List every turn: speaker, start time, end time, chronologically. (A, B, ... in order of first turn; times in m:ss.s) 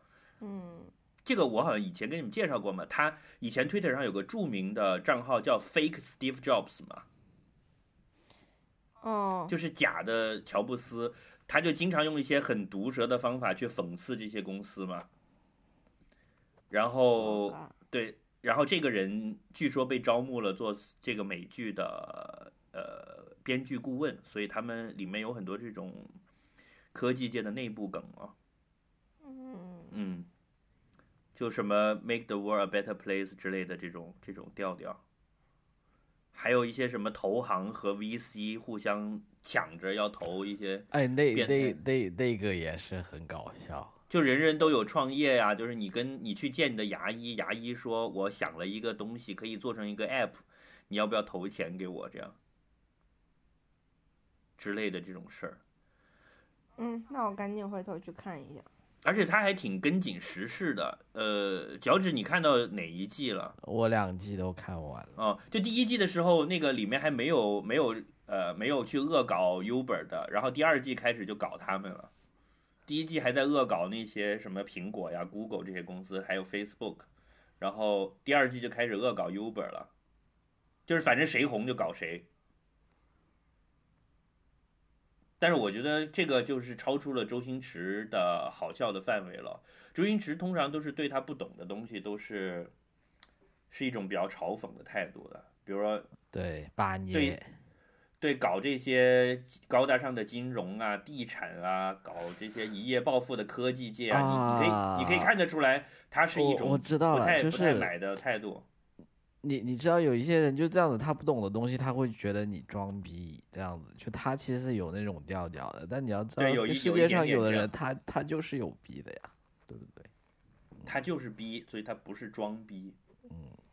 0:00.4-0:00.9 A
0:01.2-0:07.1 B
0:09.0-0:09.5 A
0:09.5-0:15.1 B
0:16.7-0:26.1 B
0:17.1-0:17.6 A
0:26.9-0:28.4 B
0:29.2-0:29.9 A
0:29.9-0:30.3 B
0:31.4-0:35.0 B
0:36.3-0:41.8 B
0:40.9-0:44.0 C
0:44.1-0:52.4 B
0:54.6-0:55.6 B
0:56.8-0:58.7 A
0:59.0-1:03.6 B
1:03.6-1:05.2 C
1:05.2-1:12.1 B
1:12.9-1:17.1 B
1:17.6-1:19.9 B
1:20.9-1:22.3 B
1:25.4-1:32.7 B
1:33.7-1:36.1 B
1:36.3-1:37.5 C
1:37.1-1:37.4 B
1:38.2-1:48.6 B
1:44.1-1:45.3 C
1:46.3-1:47.9 C
1:49.4-2:00.1 C
1:56.4-1:57.7 B
2:00.8-2:03.0 B
2:03.3-2:03.6 C